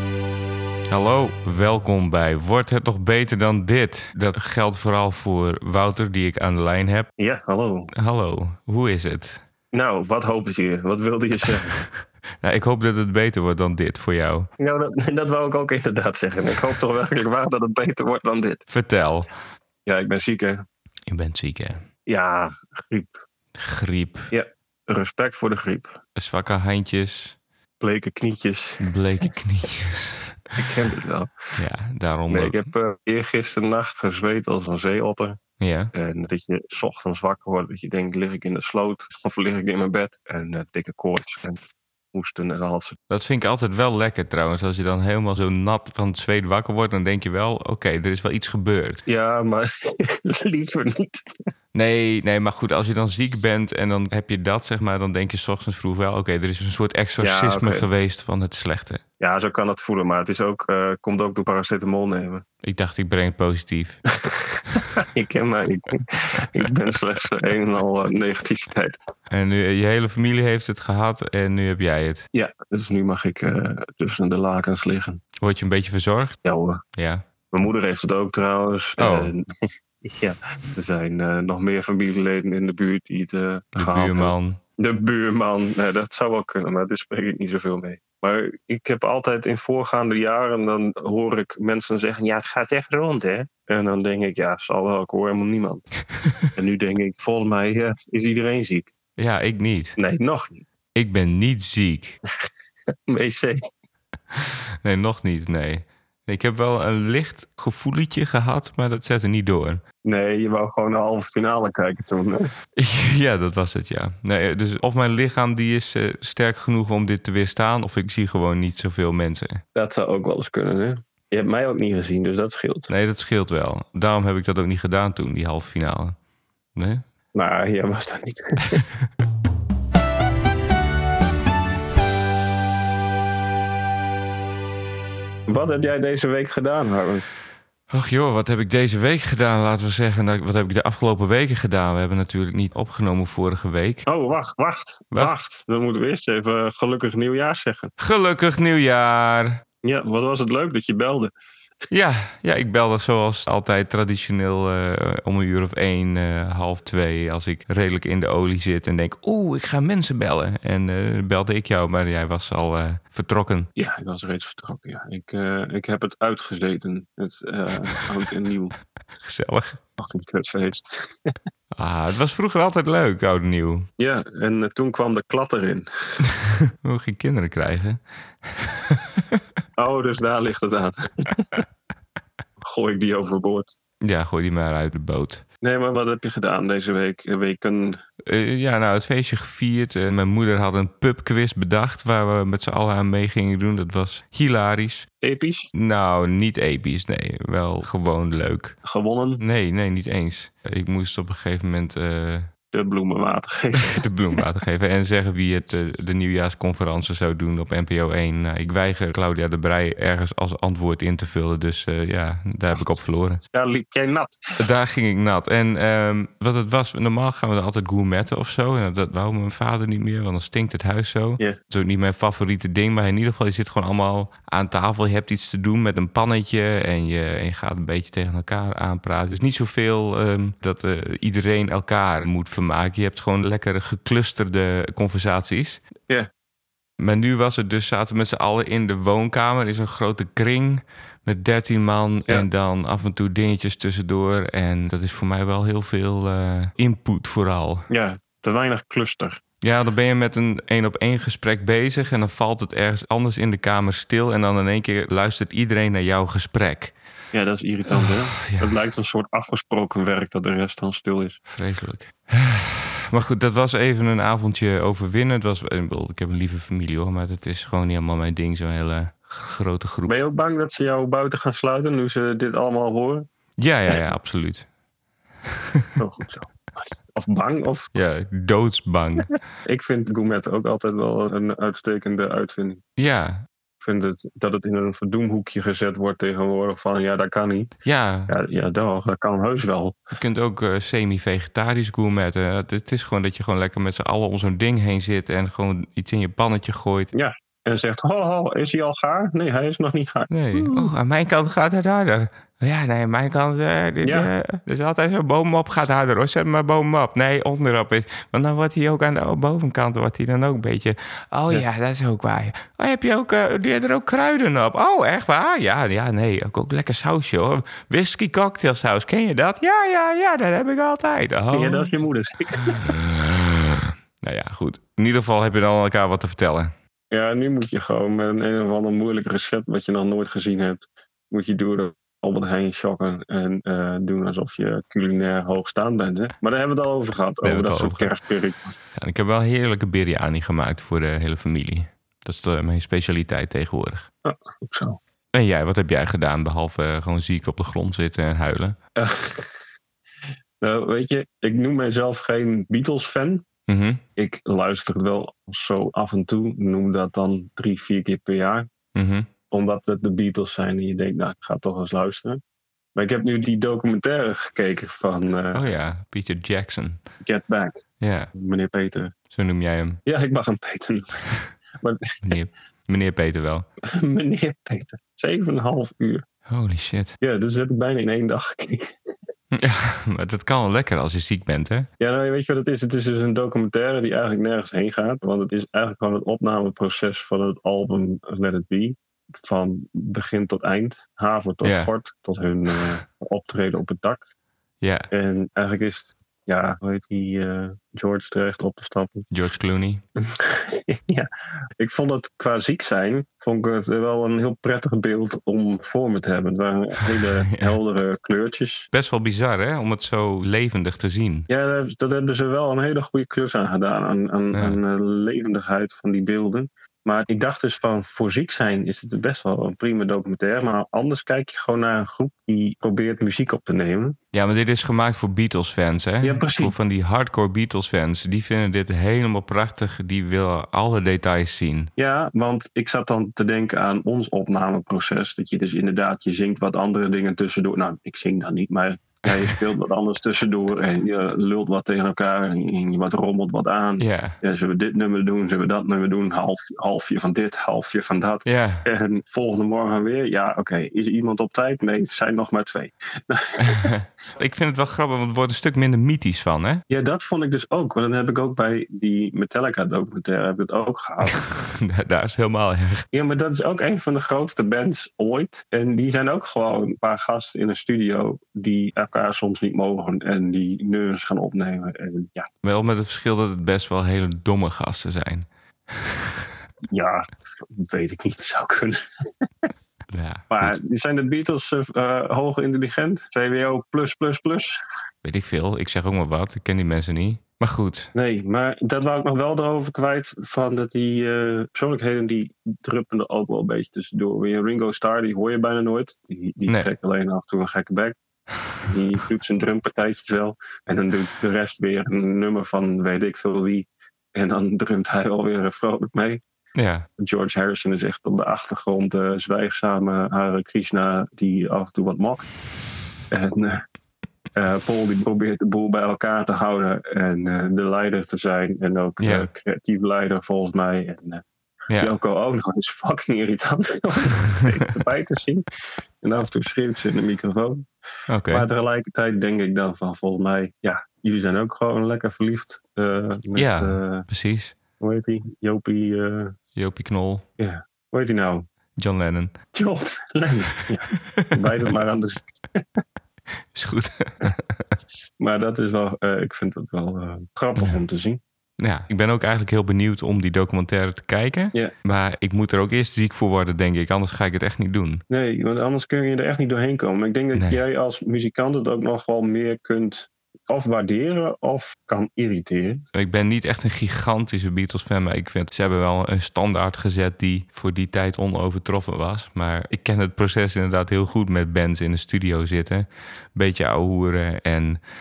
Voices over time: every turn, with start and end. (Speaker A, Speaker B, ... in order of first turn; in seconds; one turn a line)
Speaker A: 0.9-7.1
Speaker B: 7.2-7.9
Speaker A: 7.9-9.4
Speaker B: 9.7-11.7
Speaker A: 12.4-14.5
Speaker B: 14.6-18.6
Speaker A: 18.7-19.3
Speaker B: 19.9-20.6
Speaker A: 21.1-21.8
Speaker B: 22.1-23.2
Speaker A: 23.6-24.3
Speaker B: 24.3-26.0
Speaker A: 26.1-27.4
Speaker B: 27.8-28.9
Speaker A: 28.8-30.5
Speaker B: 30.6-31.3
Speaker A: 31.6-32.7
Speaker B: 32.3-35.4
Speaker A: 35.6-35.9
Speaker B: 35.9-41.6
Speaker B: 42.1-43.0
Speaker A: 43.1-49.0
Speaker B: 49.0-51.3
Speaker A: 51.7-59.0
Speaker B: 57.2-57.9
Speaker B: 59.2-62.4
Speaker A: 62.6-64.0
Speaker B: 65.1-69.0
Speaker A: 69.3-72.2
Speaker B: 72.3-75.2
Speaker A: 75.4-76.4
Speaker B: 76.4-76.8
Speaker A: 77.0-77.2
Speaker B: 77.5-79.4
Speaker A: 79.0-79.3
Speaker B: 80.0-95.8
Speaker A: 83.8-84.6
Speaker B: 96.5-98.9
Speaker A: 99.2-100.0
Speaker B: 100.0-100.6
Speaker A: 101.0-102.2
Speaker B: 103.1-103.6
Speaker A: 104.3-109.8
Speaker B: 110.0-112.4
Speaker A: 112.8-119.6
Speaker B: 119.7-122.9
Speaker A: 122.9-126.2
Speaker A: 126.8-127.0
Speaker B: 127.3-128.8
Speaker B: 135.5-137.2
Speaker A: 137.9-144.0
Speaker B: 144.1-147.9
Speaker A: 148.0-149.6
Speaker B: 149.8-151.3
Speaker A: 151.9-163.7
Speaker B: 163.8-168.8
Speaker A: 169.2-169.8
Speaker B: 170.0-171.3
Speaker A: 171.7-173.9
Speaker B: 174.0-176.2
Speaker A: 176.4-179.4
Speaker B: 179.8-181.6
Speaker B: 182.6-183.7
Speaker A: 184.0-185.4
Speaker B: 185.6-188.0
Speaker A: 188.2-195.1
Speaker B: 195.2-195.7
Speaker A: 195.7-198.8
Speaker B: 198.8-199.4
Speaker A: 199.4-202.5
Speaker B: 202.7-204.1
Speaker A: 203.9-213.4
Speaker B: 213.5-214.4
Speaker A: 214.6-235.8
Speaker A: 237.0-247.8
Speaker B: 247.9-249.4
Speaker A: 249.6-256.9
Speaker B: 257.3-261.4
Speaker A: 257.9-258.7
Speaker A: 261.5-270.1
Speaker B: 270.1-273.2
Speaker A: 273.6-274.7
Speaker B: 276.0-278.1
Speaker A: 277.9-279.3
Speaker B: 279.6-282.8
Speaker A: 283.0-283.4
Speaker B: 283.8-287.7
Speaker A: 287.8-288.3
Speaker B: 288.3-290.0
Speaker A: 290.1-297.1
Speaker B: 297.1-300.9
Speaker A: 300.3-321.9
Speaker B: 304.0-304.3
Speaker B: 321.5-322.9
Speaker A: 322.7-326.7
Speaker B: 327.1-338.8
Speaker A: 337.4-338.1
Speaker A: 338.9-344.1
Speaker B: 344.2-345.0
Speaker A: 345.3-348.8
Speaker B: 348.9-349.6
Speaker B: 350.6-353.4
Speaker A: 353.7-354.0
Speaker B: 354.1-358.7
Speaker A: 358.9-359.3
Speaker B: 359.5-362.4
Speaker B: 362.9-365.6
Speaker A: 365.5-367.0
Speaker B: 367.2-367.8
Speaker A: 368.0-368.3
Speaker B: 368.3-369.1
Speaker A: 369.3-370.0
Speaker B: 370.1-372.3
Speaker A: 372.2-373.6
Speaker B: 373.9-376.2
Speaker A: 376.5-377.2
Speaker B: 377.2-378.9
Speaker A: 379.5-381.9
Speaker B: 382.0-394.3
Speaker A: 391.6-391.9
Speaker A: 394.8-395.1
Speaker B: 395.1-399.3
Speaker A: 399.3-400.0
Speaker B: 400.3-401.3
Speaker B: 401.8-408.9
Speaker A: 407.4-407.8
Speaker A: 408.9-411.5
Speaker B: 411.5-424.2
Speaker A: 424.3-431.9
Speaker B: 426.2-426.8
Speaker B: 432.0-453.9
Speaker A: 439.3-439.6
Speaker A: 444.0-444.4
Speaker A: 448.4-448.8
Speaker A: 453.6-456.8
Speaker B: 456.9-461.4
Speaker A: 461.2-463.0
Speaker B: 463.1-472.5
Speaker A: 472.6-476.5
Speaker B: 476.9-479.0
Speaker A: 480.1-480.8
Speaker B: 480.5-484.8
Speaker A: 485.2-488.1
Speaker B: 488.1-498.2
Speaker B: 498.8-506.4
Speaker A: 506.8-507.1
Speaker B: 507.2-512.5
Speaker B: 513.3-513.8
Speaker B: 514.5-521.4
Speaker A: 519.2-519.5
Speaker A: 521.9-522.1
Speaker B: 522.0-525.6
Speaker B: 526.2-527.9
Speaker A: 528.3-528.7
Speaker B: 528.5-534.2
Speaker A: 533.5-534.7
Speaker B: 535.0-536.5
Speaker A: 536.7-537.4
Speaker B: 537.6-538.6
Speaker A: 539.0-539.5
Speaker B: 539.7-542.8
Speaker A: 543.7-544.8
Speaker B: 545.4-548.4
Speaker A: 548.8-555.2
Speaker B: 555.3-563.0
Speaker A: 563.1-575.0